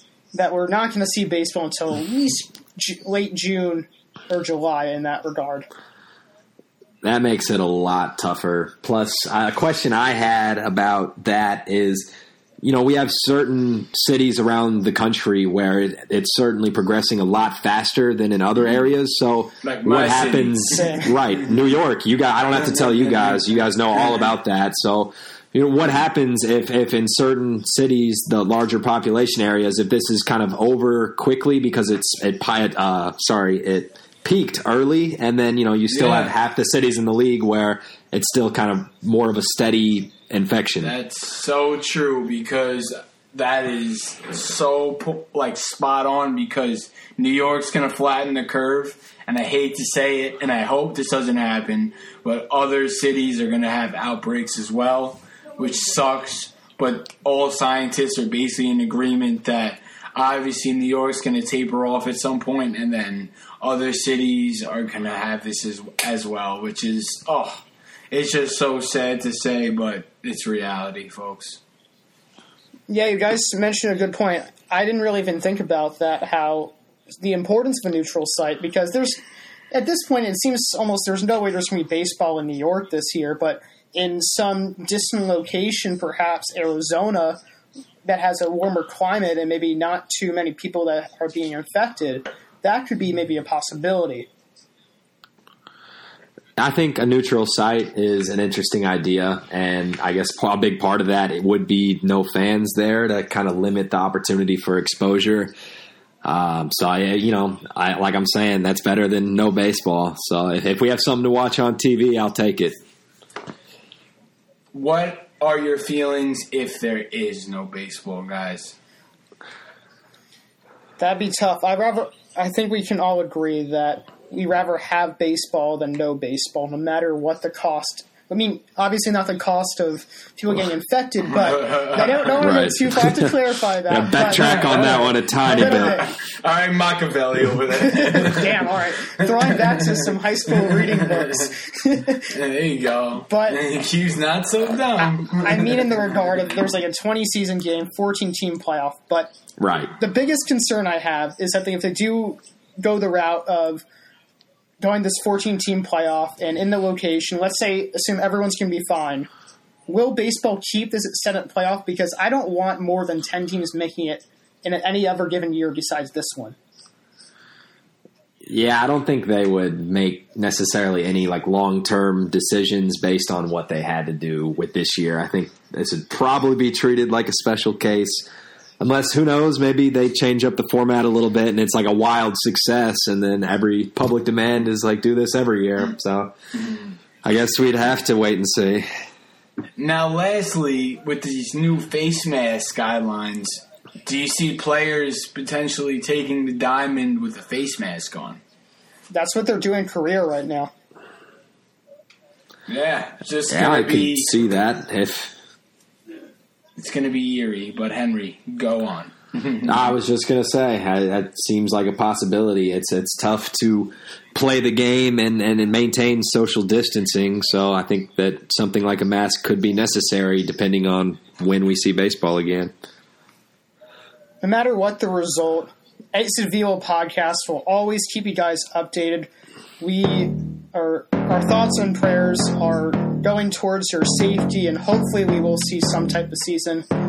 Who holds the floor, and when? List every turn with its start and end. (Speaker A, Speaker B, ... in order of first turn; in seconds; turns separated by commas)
Speaker A: 0.3-5.7, Speaker B: 7.0-12.1, Speaker B: 12.6-40.9, Speaker C: 19.6-21.0, Speaker A: 20.7-21.0, Speaker C: 22.6-24.3, Speaker C: 35.9-36.3, Speaker C: 40.8-71.6, Speaker A: 72.9-79.2, Speaker A: 79.7-87.4, Speaker A: 88.0-94.3, Speaker B: 96.6-105.5, Speaker B: 106.2-112.8, Speaker C: 114.7-118.8, Speaker A: 121.0-136.1, Speaker C: 131.3-132.4, Speaker B: 132.4-133.3, Speaker B: 133.9-136.0, Speaker C: 134.3-138.7, Speaker A: 137.9-142.3, Speaker C: 139.5-139.8, Speaker C: 140.5-141.5, Speaker C: 142.3-145.9, Speaker A: 143.3-143.6, Speaker A: 145.4-149.3, Speaker B: 149.6-149.9, Speaker A: 149.9-153.8, Speaker A: 154.8-159.3, Speaker A: 159.9-166.6, Speaker B: 168.4-178.2, Speaker B: 178.8-186.3, Speaker C: 186.6-186.9, Speaker B: 187.2-188.9, Speaker C: 189.8-198.4, Speaker A: 199.1-200.7, Speaker C: 202.7-204.3, Speaker B: 203.5-205.3, Speaker C: 206.8-209.9, Speaker B: 209.7-222.7, Speaker A: 224.4-236.9